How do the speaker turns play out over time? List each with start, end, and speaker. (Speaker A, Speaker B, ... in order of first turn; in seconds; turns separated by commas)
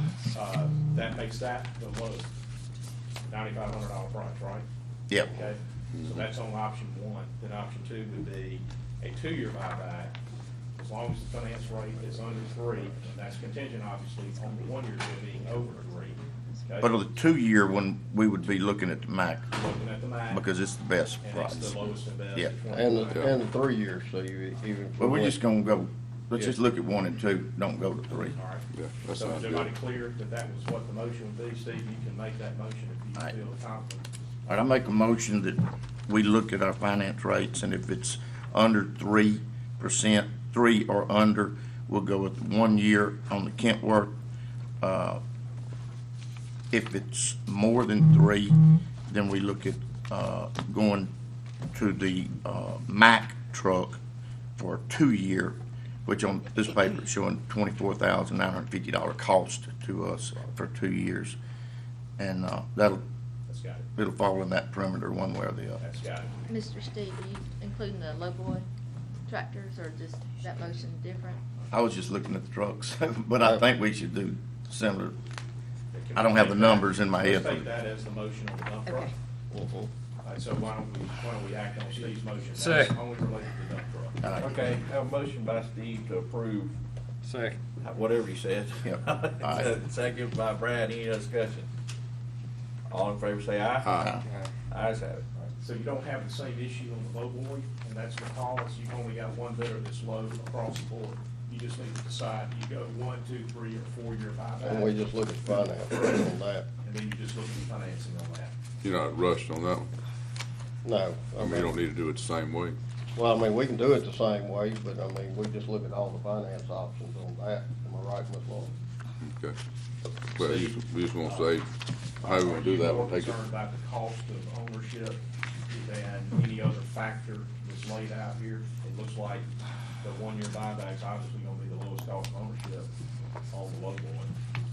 Speaker A: 0.3-2.3, Speaker A: 3.3-4.7, Speaker B: 5.1-5.3, Speaker A: 5.2-10.1, Speaker C: 5.9-6.2, Speaker A: 10.8-16.9, Speaker B: 16.8-19.5, Speaker A: 19.5-20.4, Speaker B: 20.3-22.5, Speaker A: 21.2-23.4, Speaker D: 22.7-25.4, Speaker C: 23.1-23.4, Speaker B: 25.0-28.4, Speaker A: 28.2-34.0, Speaker C: 28.7-29.7, Speaker B: 34.5-44.1, Speaker B: 44.8-45.2, Speaker B: 46.7-51.1, Speaker B: 51.7-54.0, Speaker B: 54.6-61.4, Speaker B: 62.2-63.0, Speaker A: 63.5-63.9, Speaker B: 64.0-65.8, Speaker A: 65.8-66.5, Speaker E: 66.5-68.7, Speaker E: 69.3-71.4, Speaker B: 71.7-75.2, Speaker A: 75.9-79.1, Speaker B: 76.1-77.7, Speaker E: 78.8-79.1, Speaker F: 79.5-79.8, Speaker A: 80.2-84.2, Speaker B: 84.2-84.8, Speaker F: 84.4-86.8, Speaker F: 87.3-91.7, Speaker B: 88.8-89.8, Speaker F: 92.9-93.9, Speaker C: 93.8-94.2, Speaker B: 94.0-94.2, Speaker F: 94.7-95.2, Speaker A: 95.5-105.0, Speaker D: 104.6-106.7, Speaker A: 105.6-106.2, Speaker A: 106.8-108.5, Speaker C: 108.8-109.9, Speaker D: 110.8-111.8, Speaker C: 111.4-112.8, Speaker D: 113.1-118.7, Speaker C: 119.2-119.5, Speaker C: 120.3-123.4, Speaker A: 120.4-121.5, Speaker A: 122.2-129.5, Speaker A: 130.0-132.9, Speaker A: 133.5-134.3